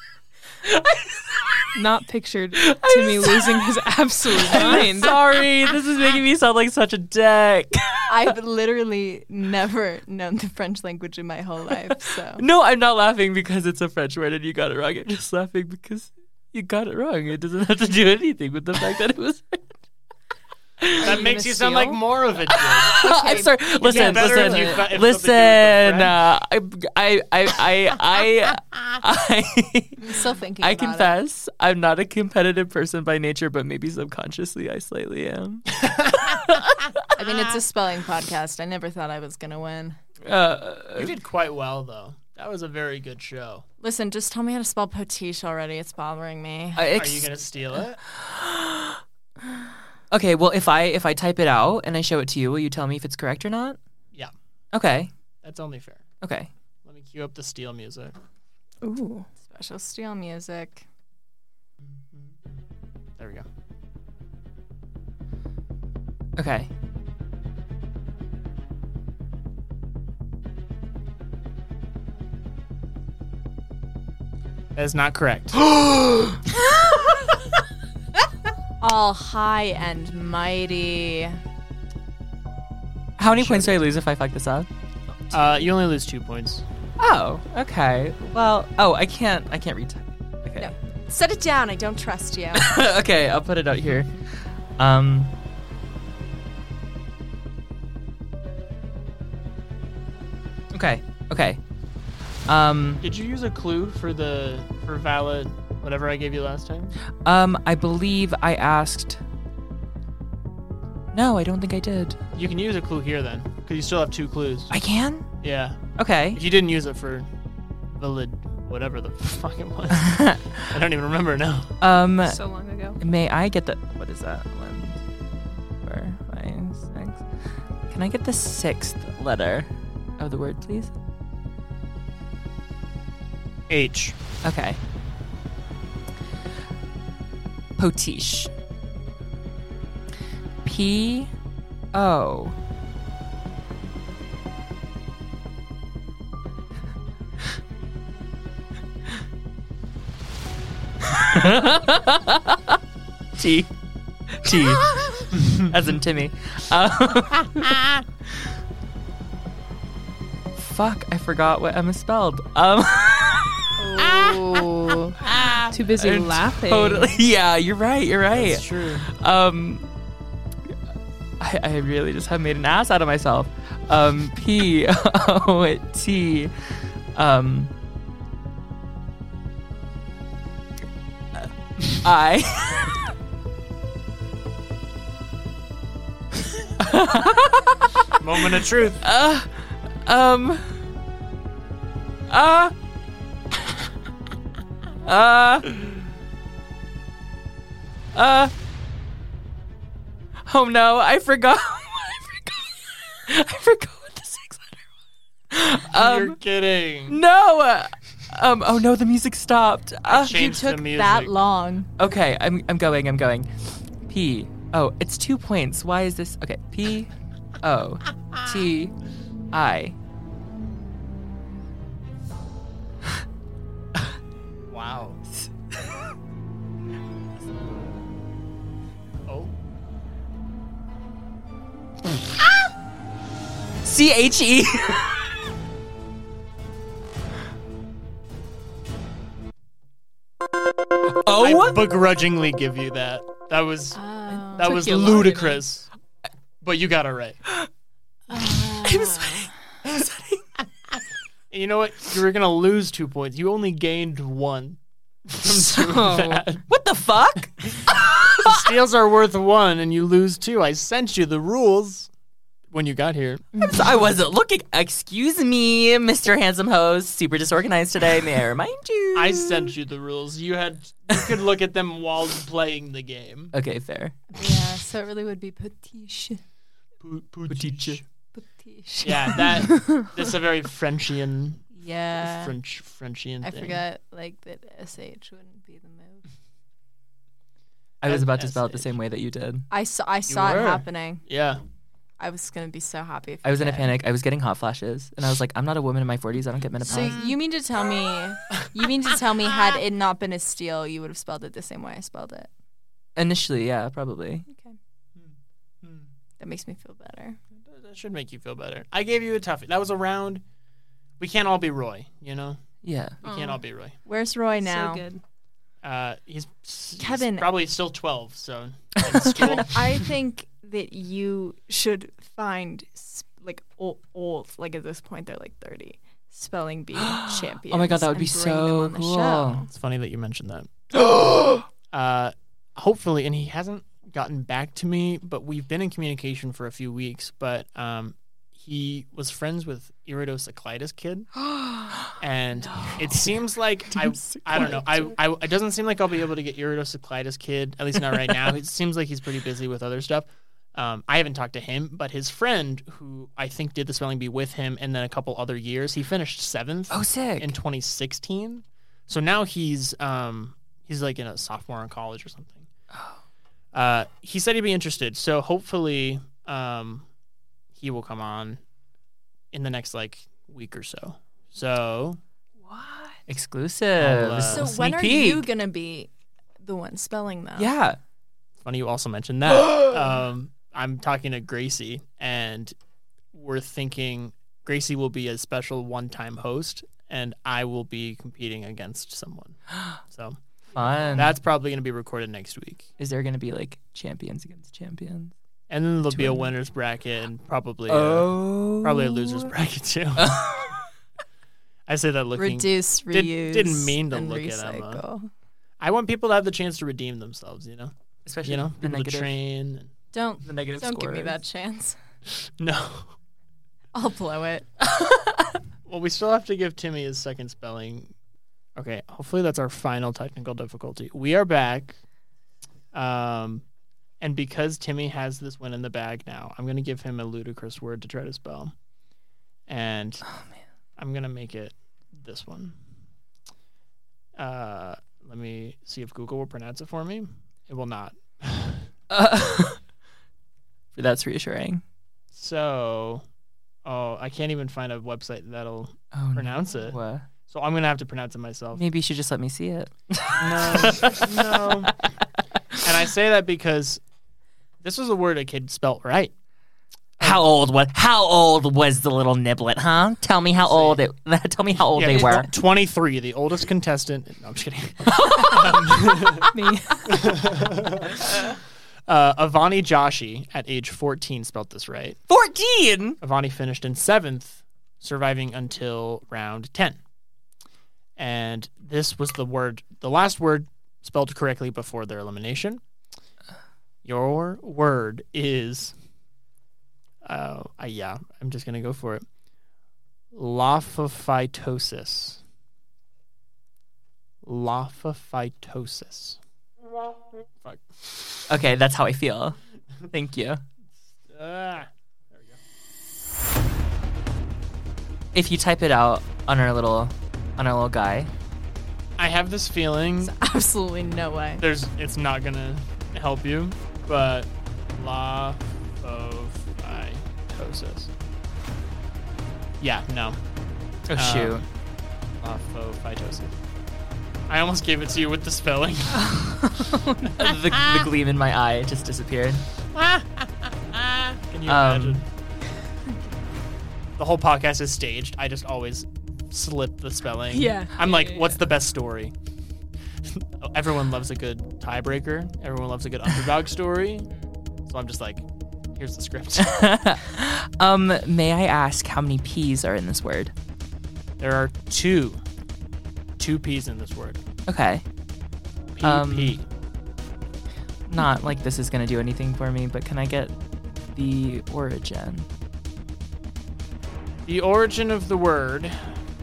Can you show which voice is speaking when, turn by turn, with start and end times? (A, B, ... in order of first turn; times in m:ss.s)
0:00.6-0:01.6 A
0:01.7-0:05.2 B
0:02.5-0:08.3 A
0:08.1-0:12.4 C
0:12.4-0:19.7 A
0:20.8-0:21.3 A
0:21.0-0:22.0 B
0:21.0-0:23.0 D
0:22.5-0:36.9 A
0:22.8-0:24.8 C
0:23.8-0:26.2 D
0:30.0-0:31.1 C
0:37.1-0:40.0 C
0:40.2-0:41.1 A
0:40.9-0:43.6 D
0:43.8-0:47.0 C
0:46.8-0:47.3 A
0:46.9-0:48.0 D
0:48.1-0:49.0 A
0:50.1-0:53.8 A
0:54.7-0:55.1 A
0:55.4-0:56.0 D
0:56.2-0:56.5 A
0:56.8-0:58.1 D
0:58.8-0:59.3 B
0:59.4-1:00.8 C
1:02.0-1:02.5 D
1:03.2-1:03.5 D
1:06.4-1:06.7 A
1:14.7-1:15.6 D
1:15.6-1:16.4 A
1:18.8-1:21.4 C
1:23.2-1:24.7 A
1:23.3-1:23.8 D
1:25.3-1:26.6 D
1:27.0-1:30.7 A
1:30.6-1:32.8 C
1:32.5-1:35.3 A
1:40.7-1:41.6 A
1:42.5-1:43.0 A
1:43.0-1:47.0 D
1:47.2-1:49.2 A
1:51.1-1:52.2 A
1:52.3-1:54.7 D
1:54.7-1:55.3 A
1:55.4-1:55.8 D
1:56.0-1:56.4 A
1:56.3-1:57.3 D
1:57.9-2:01.7 D
2:00.0-2:00.7 A
2:01.8-2:02.4 A
2:02.2-2:03.0 B
2:03.0-2:05.0 A
2:05.8-2:07.3 A
2:07.9-2:10.9 A
2:13.7-2:14.2 D
2:14.4-2:14.8 A
2:17.8-2:18.5 A
2:20.6-2:21.3 A
2:21.9-2:22.5 A
2:31.0-2:32.8 A
2:33.4-2:33.7 A
2:34.3-2:37.8 A
2:40.6-2:44.6 A
2:43.8-2:45.2 C
2:44.0-2:44.3 B
2:45.2-2:45.8 D
2:45.7-2:47.1 B
2:46.0-2:49.9 A
2:48.3-2:49.1 D
2:51.4-2:56.5 A
2:57.1-2:57.7 A
3:01.3-3:03.1 A
3:06.8-3:10.7 A
3:08.2-3:09.0 D
3:12.3-3:12.7 A
3:15.0-3:16.0 A
3:18.1-3:18.5 A
3:20.4-3:24.8 A
3:25.5-3:26.4 A
3:25.9-3:27.2 D
3:27.1-3:30.8 A
3:30.0-3:31.3 D
3:30.7-3:31.9 C
3:32.0-3:37.1 A
3:37.6-3:38.9 A
3:39.5-3:40.0 A
3:44.7-3:45.2 D
3:49.2-3:49.5 D
3:53.8-3:55.3 A
4:01.1-4:01.9 A
4:01.4-4:05.9 D
4:03.9-4:04.9 C
4:04.5-4:05.6 B
4:06.6-4:07.4 D
4:08.3-4:09.5 C
4:08.7-4:10.4 A
4:11.5-4:16.6 D
4:15.5-4:18.7 A
4:18.4-4:22.1 D
4:22.7-4:23.6 D
4:23.6-4:29.7 A
4:29.1-4:33.5 D
4:33.5-4:34.2 A
4:34.3-4:36.4 C
4:37.0-4:38.0 D
4:37.5-4:38.0 A
4:38.3-4:39.6 C
4:39.0-4:43.8 D
4:41.7-4:42.5 C
4:43.4-4:46.3 C
4:48.0-4:49.6 A
4:48.0-4:48.9 D
4:49.7-4:51.2 C
4:50.3-4:51.6 D
4:52.2-4:53.9 C
4:53.4-4:57.3 A
4:56.8-5:02.5 C
5:03.2-5:04.4 A
5:04.5-5:04.8 C
5:05.2-5:06.1 D
5:06.4-5:07.4 C
5:07.6-5:10.4 D
5:11.2-5:12.6 D
5:12.8-5:13.2 A
5:13.2-5:14.0 D
5:13.2-5:13.6 B
5:14.0-5:15.0 C
5:14.6-5:15.2 B
5:15.8-5:20.0 D
5:17.0-5:17.5 C
5:19.2-5:29.7 C
5:27.1-5:29.6 A
5:29.7-5:30.9 D
5:31.0-5:31.6 A
5:31.9-5:41.3 D
5:41.4-5:43.4 A
5:42.2-6:02.7 D
5:43.9-5:45.1 A
5:56.9-5:57.5 A
6:02.9-6:03.2 A
6:03.7-6:07.0 D
6:07.7-6:08.6 D
6:09.5-6:12.2 D
6:12.6-6:13.2 B
6:13.3-6:15.5 A
6:14.0-6:14.7 D
6:14.5-6:16.1 C
6:16.6-6:17.7 C
6:17.6-6:18.0 A
6:18.6-6:22.7 D
6:23.3-6:30.4 D
6:30.7-6:31.3 A
6:31.1-6:32.9 D
6:33.0-6:35.3 A
6:35.7-6:40.4 D
6:36.1-6:36.5 A
6:37.9-6:39.5 A
6:40.2-6:40.9 A
6:41.9-6:45.0 D
6:42.4-6:45.3 C
6:45.8-6:49.9 D
6:48.2-6:49.3 A
6:50.1-6:52.0 C
6:50.4-6:51.4 A
6:52.3-6:53.1 D
6:53.9-6:54.7 C
6:55.0-6:55.5 A
6:55.8-6:58.1 D
6:58.8-7:02.0 D
7:02.9-7:03.6 D
7:04.2-7:08.7 D
7:09.7-7:10.2 D
7:11.0-7:12.8 D
7:14.4-7:18.9 D
7:19.1-7:19.8 A
7:20.9-7:21.8 A
7:22.3-7:23.2 D
7:23.8-7:28.8 D
7:26.1-7:27.3 A
7:28.7-7:31.9 A
7:30.4-7:31.9 D
7:32.8-7:34.0 D
7:34.8-7:36.3 D
7:37.2-7:42.5 A
7:40.6-7:41.0 D
7:41.9-7:46.5 D
7:42.1-7:42.4 B
7:45.0-7:46.5 A
7:46.5-7:47.5 B
7:47.1-7:48.4 D
7:49.1-7:52.2 D
7:52.3-7:53.2 A
7:53.2-7:57.0 D
7:58.2-8:02.8 D
8:04.0-8:05.9 D
8:07.2-8:09.2 D
8:10.3-8:12.4 D
8:14.4-8:16.4 D
8:18.5-8:19.6 A
8:20.1-8:20.6 A
8:21.2-8:22.6 D
8:25.3-8:28.3 A
8:29.2-8:30.3 D
8:30.2-8:31.6 C
8:31.6-8:38.1 D
8:39.8-8:40.4 D
8:41.1-8:41.6 A
8:41.1-8:41.6 D
8:42.4-8:43.6 D
8:44.5-8:46.5 D
8:46.8-8:47.1 B
8:47.3-8:49.6 A
8:47.4-8:48.1 D
8:49.9-8:52.3 D
8:51.6-8:52.2 A
8:54.2-8:59.3 D
8:57.5-8:58.6 B
9:00.2-9:04.3 D
9:04.8-9:06.8 D
9:06.6-9:10.5 A
9:11.4-9:12.4 D
9:13.4-9:14.4 D
9:14.7-9:15.0 A
9:15.9-9:16.7 D
9:16.0-9:16.6 A
9:18.1-9:20.5 A
9:21.1-9:22.5 A
9:24.4-9:26.1 D